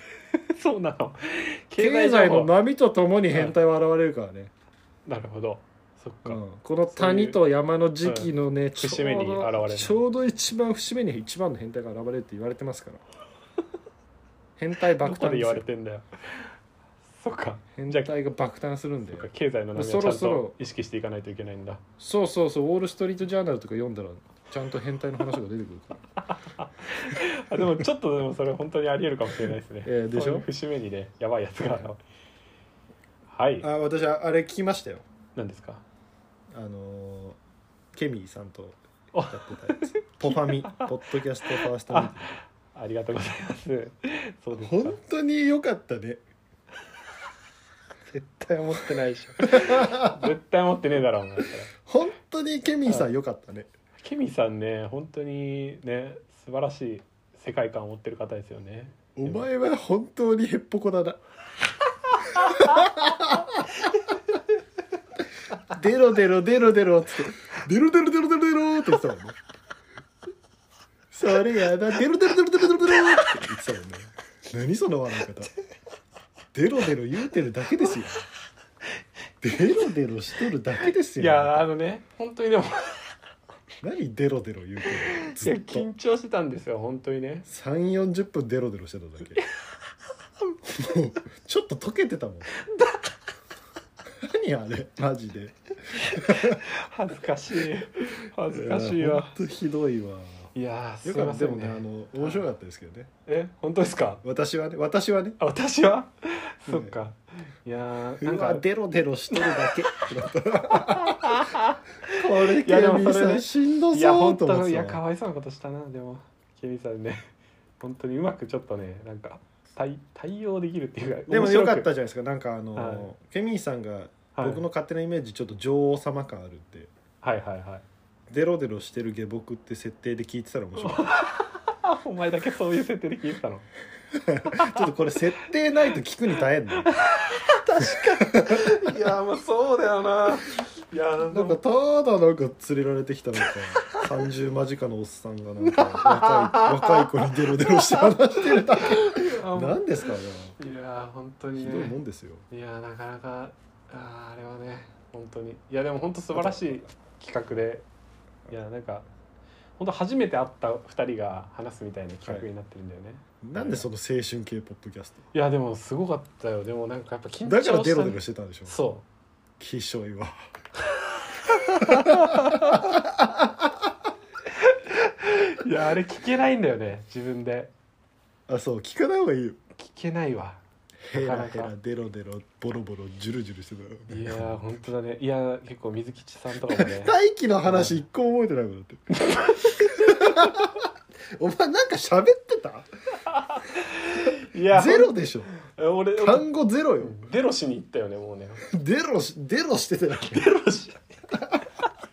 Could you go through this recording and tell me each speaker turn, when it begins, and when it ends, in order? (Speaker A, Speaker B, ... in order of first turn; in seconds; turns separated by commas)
Speaker A: 0.3-2.5, Speaker B: 1.8-4.5, Speaker A: 5.0-7.4, Speaker B: 6.2-13.0, Speaker A: 8.0-10.0, Speaker B: 14.6-15.6, Speaker A: 15.0-16.5, Speaker A: 17.2-18.1, Speaker B: 17.8-20.5, Speaker A: 19.1-21.8, Speaker B: 22.0-26.0, Speaker A: 26.2-32.0, Speaker B: 29.4-30.5, Speaker B: 31.6-31.9, Speaker A: 33.3-33.7, Speaker B: 33.6-35.0, Speaker A: 35.4-35.8, Speaker B: 36.5-37.4, Speaker B: 37.9-42.4, Speaker A: 39.1-40.9, Speaker A: 41.4-45.0, Speaker B: 44.5-46.2, Speaker A: 48.1-51.7, Speaker B: 49.4-50.3, Speaker B: 51.8-53.7, Speaker A: 54.0-59.4, Speaker B: 59.1-61.2, Speaker A: 62.3-62.8, Speaker B: 62.3-63.7, Speaker B: 65.7-69.3, Speaker B: 71.1-75.5, Speaker B: 76.5-78.2, Speaker B: 79.4-81.6, Speaker A: 81.1-83.0, Speaker B: 83.8-85.9, Speaker A: 85.1-87.4, Speaker B: 87.5-89.4, Speaker B: 90.6-92.5, Speaker A: 92.6-93.0, Speaker B: 94.2-96.6, Speaker A: 95.9-99.3, Speaker B: 98.5-100.5, Speaker A: 100.5-102.4, Speaker B: 101.0-103.1, Speaker A: 103.3-104.2, Speaker B: 104.2-105.4, Speaker A: 105.4-108.6, Speaker B: 106.7-107.0, Speaker B: 108.2-111.5, Speaker A: 109.3-110.0, Speaker A: 110.8-117.2, Speaker B: 112.1-115.0, Speaker A: 117.8-121.9, Speaker B: 121.3-126.9, Speaker A: 122.7-123.1, Speaker A: 124.3-124.6, Speaker A: 127.2-127.8, Speaker B: 128.3-131.1, Speaker A: 130.8-133.7, Speaker B: 134.1-136.9, Speaker A: 134.5-134.9, Speaker A: 136.8-141.6, Speaker B: 138.2-138.9, Speaker B: 141.3-150.6, Speaker A: 145.6-151.9, Speaker B: 151.6-152.4, Speaker A: 152.5-157.8, Speaker B: 156.3-156.8, Speaker A: 158.5-159.1, Speaker A: 159.8-163.9, Speaker B: 163.4-165.3, Speaker A: 165.3-169.0, Speaker B: 167.4-168.8, Speaker B: 169.6-170.3, Speaker A: 170.9-172.9, Speaker B: 171.8-173.9, Speaker A: 174.4-177.7, Speaker B: 178.5-179.6, Speaker A: 179.8-181.7, Speaker B: 181.0-184.6, Speaker A: 184.1-187.1, Speaker B: 186.8-189.0, Speaker A: 187.7-188.0, Speaker A: 189.2-190.2, Speaker B: 189.7-192.9, Speaker A: 193.3-196.5, Speaker B: 194.7-195.5, Speaker B: 196.2-197.3, Speaker A: 197.0-198.6, Speaker B: 198.7-200.4, Speaker A: 200.2-201.1